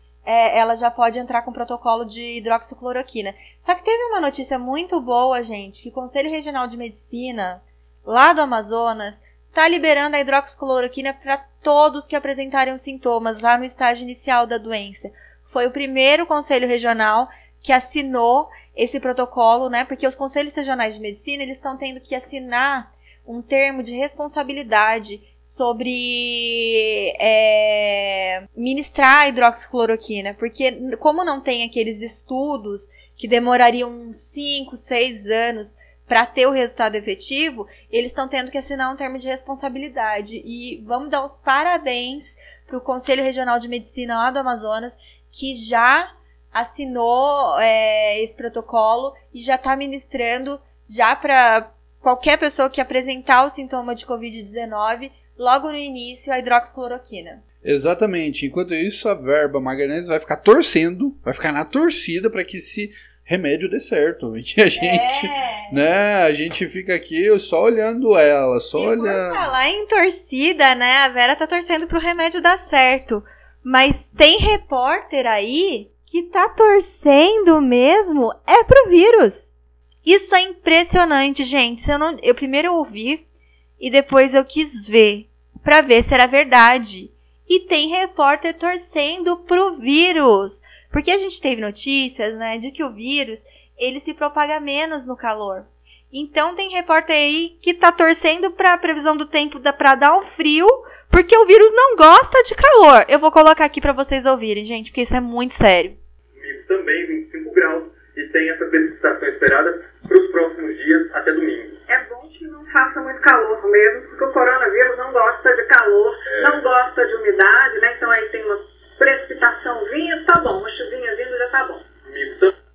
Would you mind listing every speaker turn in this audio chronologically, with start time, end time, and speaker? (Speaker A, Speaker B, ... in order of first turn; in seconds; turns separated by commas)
Speaker A: 0.2-57.4, Speaker B: 57.6-69.5, Speaker A: 64.8-65.8, Speaker A: 68.8-79.5, Speaker A: 80.0-83.2, Speaker A: 83.8-106.0, Speaker C: 106.4-111.8, Speaker D: 111.9-121.9, Speaker C: 122.1-122.5